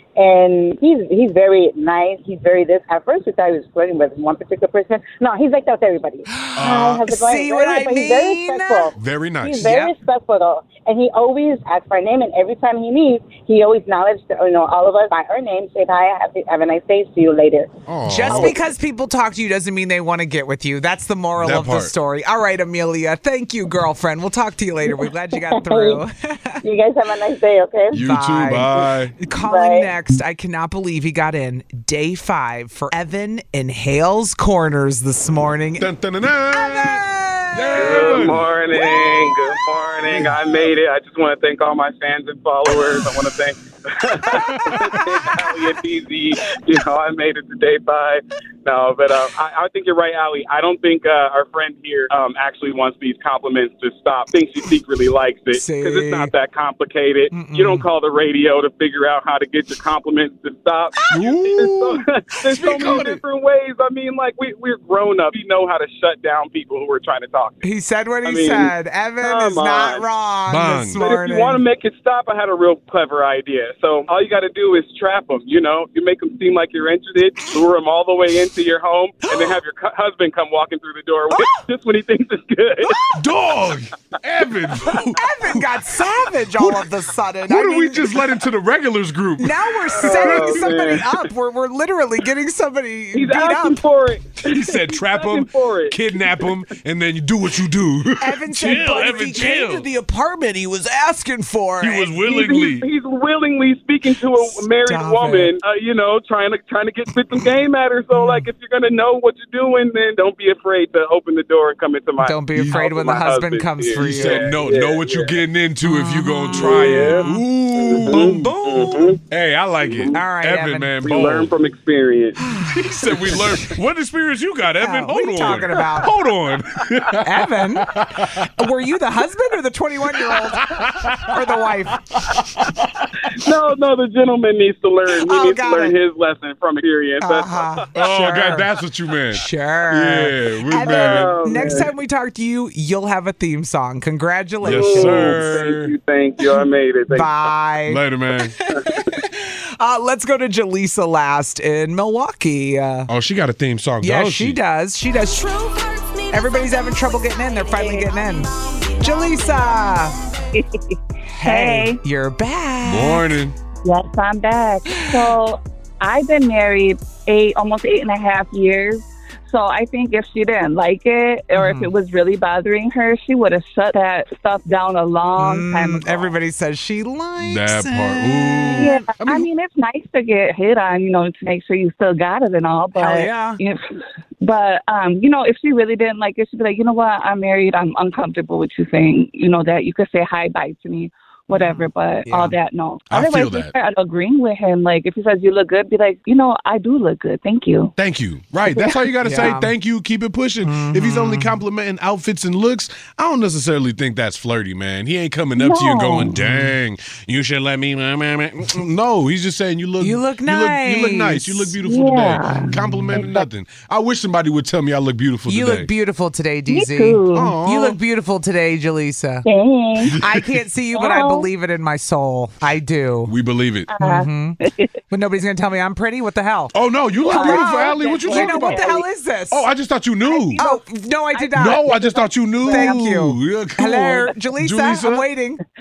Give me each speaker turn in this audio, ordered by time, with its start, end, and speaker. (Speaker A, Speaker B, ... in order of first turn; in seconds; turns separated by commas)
Speaker A: 0.2-17.7, Speaker B: 6.3-8.9, Speaker C: 6.6-7.0, Speaker C: 9.0-9.7, Speaker B: 9.6-9.9, Speaker C: 17.9-18.6, Speaker B: 18.1-26.6, Speaker C: 21.4-21.9, Speaker A: 24.9-26.0, Speaker A: 26.6-28.0, Speaker C: 27.9-29.2, Speaker B: 27.9-35.9, Speaker A: 29.4-29.9, Speaker C: 35.8-37.0, Speaker B: 36.5-39.6, Speaker C: 37.5-38.5, Speaker D: 37.8-67.7, Speaker B: 44.4-45.1, Speaker C: 44.4-45.0, Speaker B: 55.5-56.3, Speaker B: 57.3-57.9, Speaker C: 61.1-63.2, Speaker B: 67.6-71.6, Speaker D: 68.2-70.1, Speaker C: 70.5-71.0, Speaker D: 71.0-83.0, Speaker B: 79.2-79.6, Speaker B: 81.3-81.7, Speaker B: 82.8-83.1, Speaker C: 83.1-85.8, Speaker B: 85.1-88.2, Speaker C: 86.5-86.9, Speaker C: 87.5-91.0, Speaker B: 89.4-93.8, Speaker D: 90.0-91.1, Speaker D: 93.1-96.5, Speaker C: 94.4-99.9, Speaker B: 98.2-102.5, Speaker C: 101.8-102.9, Speaker D: 102.3-115.4, Speaker B: 104.4-105.5, Speaker B: 108.1-108.5, Speaker B: 112.2-114.5, Speaker C: 112.5-112.9, Speaker C: 114.0-118.5, Speaker B: 115.8-119.2, Speaker D: 116.5-117.3, Speaker D: 117.8-119.2, Speaker C: 119.3-121.5, Speaker D: 119.8-120.2, Speaker B: 120.1-121.0, Speaker D: 121.0-122.4, Speaker B: 122.4-123.8, Speaker C: 122.6-128.5, Speaker B: 124.8-126.1, Speaker B: 127.2-132.0, Speaker C: 130.1-133.0, Speaker D: 133.4-137.9, Speaker B: 135.2-136.0, Speaker B: 137.2-138.7, Speaker C: 137.9-141.8, Speaker B: 139.3-145.5, Speaker D: 140.8-141.9, Speaker C: 144.6-145.9, Speaker D: 144.6-147.3, Speaker B: 147.1-153.1, Speaker C: 147.9-148.6, Speaker C: 153.1-154.6, Speaker B: 154.0-160.2, Speaker E: 160.5-162.0, Speaker B: 161.3-163.3, Speaker C: 162.8-163.6, Speaker E: 163.8-176.3, Speaker B: 164.9-165.3, Speaker B: 171.6-171.9, Speaker B: 175.4-179.1, Speaker C: 177.4-179.5, Speaker E: 178.8-183.8, Speaker B: 183.0-183.6, Speaker E: 184.4-197.9, Speaker B: 191.5-192.6, Speaker C: 193.1-193.7, Speaker C: 198.0-215.9, Speaker E: 198.7-199.1, Speaker B: 199.2-199.7, Speaker B: 200.6-201.6, Speaker E: 205.6-206.3, Speaker B: 206.3-206.7, Speaker B: 210.0-211.8, Speaker E: 211.8-213.5, Speaker B: 215.5-219.5, Speaker E: 216.7-217.6, Speaker C: 217.3-218.0, Speaker E: 219.5-220.1, Speaker C: 220.1-220.5, Speaker B: 220.2-223.3, Speaker E: 221.0-221.4, Speaker C: 223.3-223.9, Speaker E: 223.9-224.9, Speaker B: 224.0-224.6, Speaker B: 225.1-226.7, Speaker C: 226.7-229.0, Speaker E: 227.3-229.0, Speaker B: 227.3-229.6, Speaker C: 229.5-230.6, Speaker E: 230.2-230.8, Speaker B: 230.6-231.9, Speaker E: 231.3-233.0, Speaker C: 231.5-235.3, Speaker B: 232.6-235.6